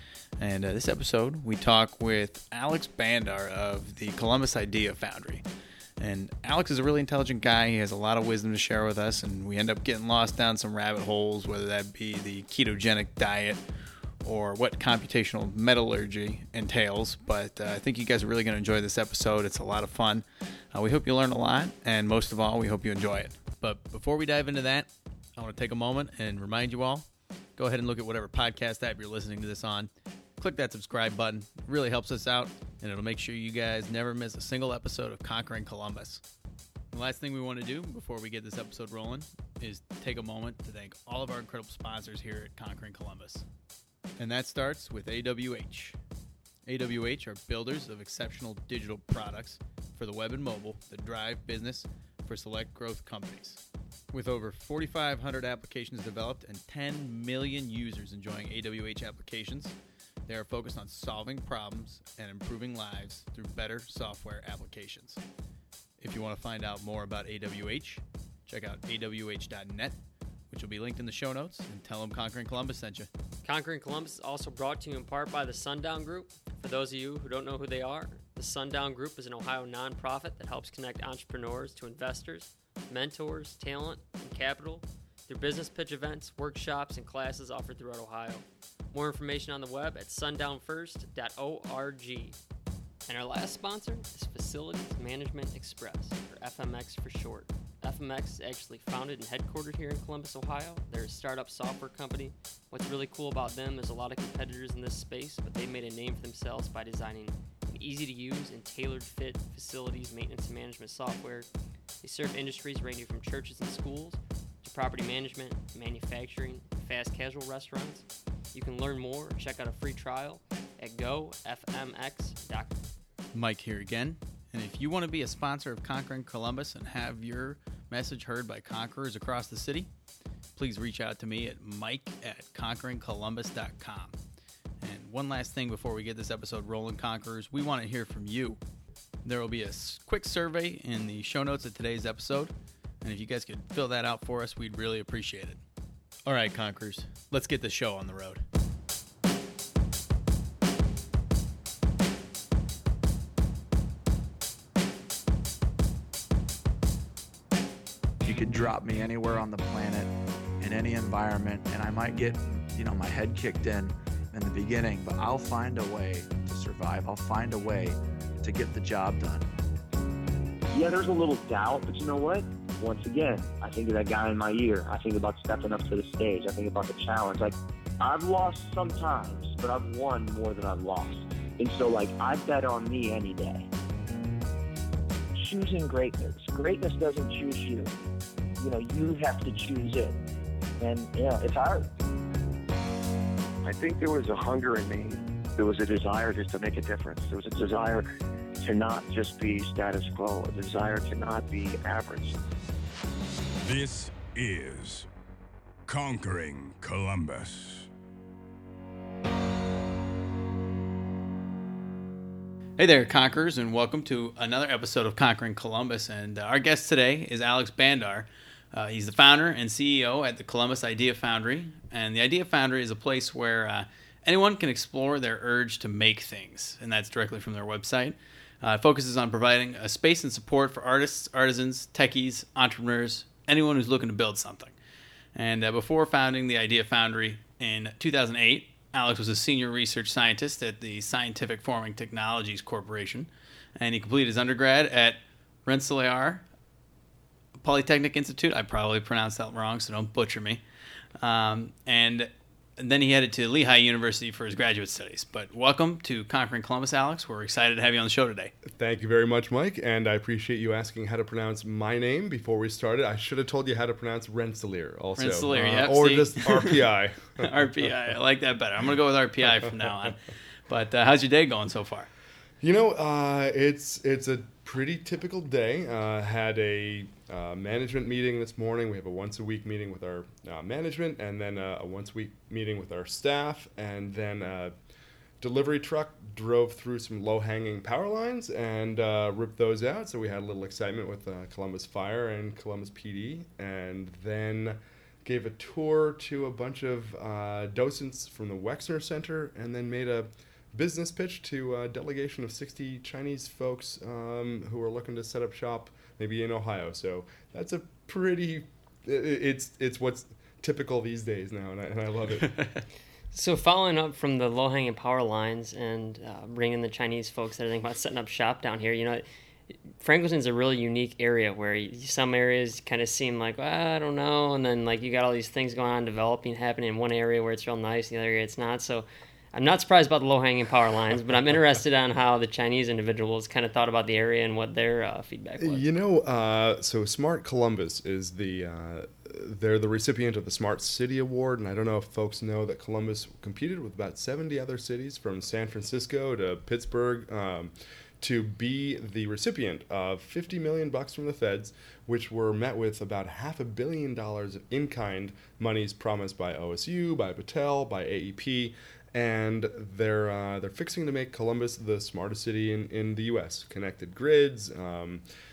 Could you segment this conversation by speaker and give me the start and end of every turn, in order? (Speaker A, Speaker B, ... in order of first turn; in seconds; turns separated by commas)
Speaker A: 0.4-5.4, Speaker A: 6.0-13.6, Speaker A: 14.2-36.2, Speaker A: 36.9-43.5, Speaker A: 44.2-46.0, Speaker A: 46.7-53.6, Speaker A: 54.1-59.7, Speaker A: 60.3-65.2, Speaker A: 66.0-70.0, Speaker A: 70.5-73.1, Speaker B: 73.5-92.4, Speaker B: 93.1-111.5, Speaker B: 112.0-122.8, Speaker A: 123.3-129.9, Speaker A: 130.6-134.2, Speaker A: 134.8-138.6, Speaker A: 139.2-145.6, Speaker A: 146.3-148.4, Speaker C: 158.2-169.5, Speaker D: 170.7-183.7, Speaker E: 185.4-188.0, Speaker E: 188.6-190.2, Speaker E: 190.8-191.9, Speaker F: 193.6-198.1, Speaker F: 198.6-202.4, Speaker G: 203.6-205.1, Speaker G: 205.9-207.9, Speaker A: 212.8-234.8, Speaker A: 235.3-246.4, Speaker A: 247.6-250.6, Speaker A: 251.2-258.5, Speaker H: 258.7-267.7, Speaker A: 265.2-272.1, Speaker H: 272.6-284.7, Speaker H: 285.4-312.7, Speaker A: 312.5-312.8, Speaker B: 313.3-319.2, Speaker B: 320.0-335.9, Speaker H: 335.6-365.2